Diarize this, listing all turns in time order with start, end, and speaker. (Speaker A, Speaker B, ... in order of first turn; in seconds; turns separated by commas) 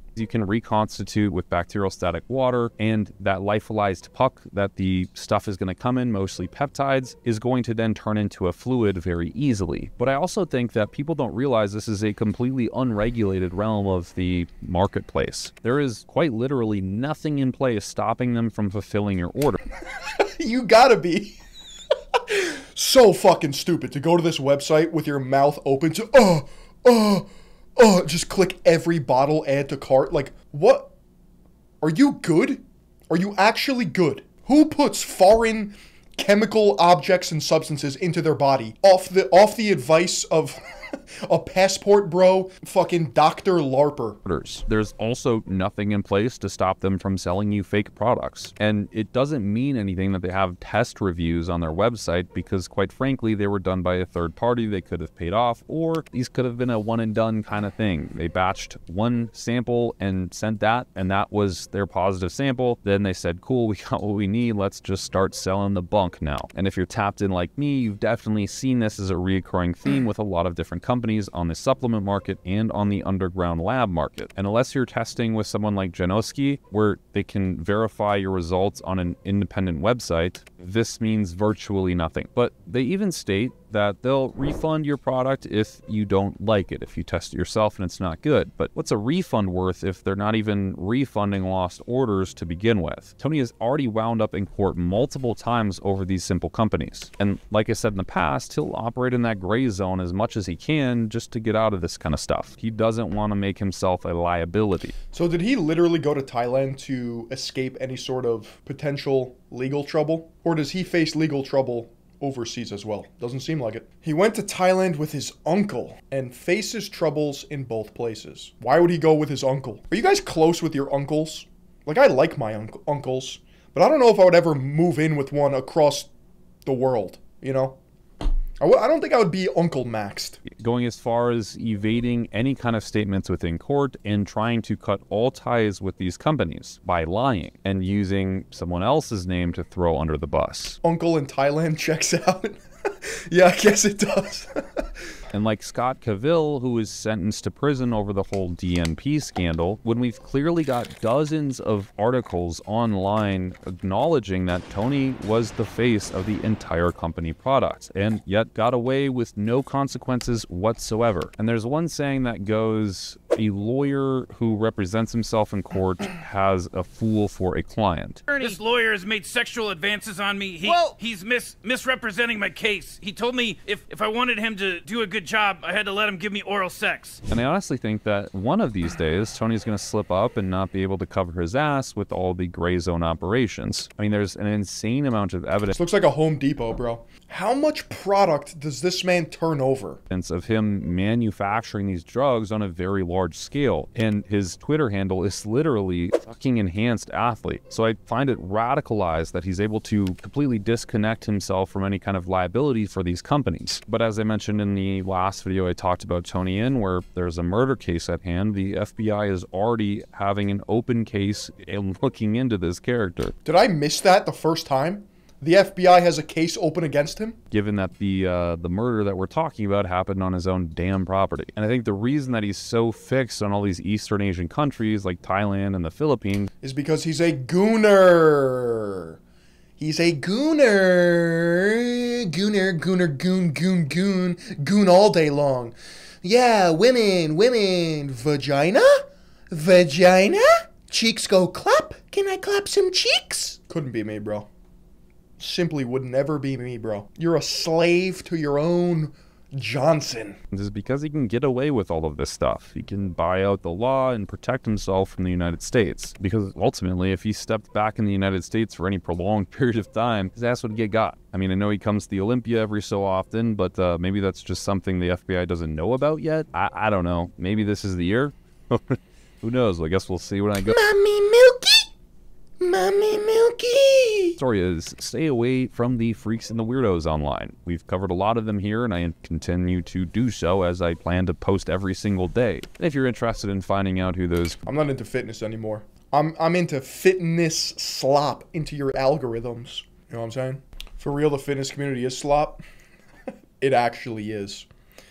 Speaker A: 0.1-19.6, Speaker B: 20.4-21.4, Speaker B: 22.3-30.9, Speaker B: 31.8-40.6, Speaker B: 41.3-44.2, Speaker A: 44.2-104.9, Speaker B: 105.1-126.1, Speaker B: 126.6-127.8, Speaker B: 128.6-130.4, Speaker A: 130.4-140.8, Speaker B: 140.8-144.8, Speaker A: 145.3-168.6, Speaker C: 168.3-177.2, Speaker A: 177.3-185.7, Speaker B: 185.7-190.0, Speaker A: 190.1-213.3, Speaker B: 213.4-217.4, Speaker A: 217.5-226.5, Speaker B: 226.6-229.2, Speaker B: 229.8-244.5, Speaker B: 245.4-250.4, Speaker A: 250.5-270.8, Speaker B: 270.7-271.8, Speaker B: 272.6-274.4, Speaker A: 274.4-284.6, Speaker B: 284.6-292.6, Speaker B: 293.6-294.7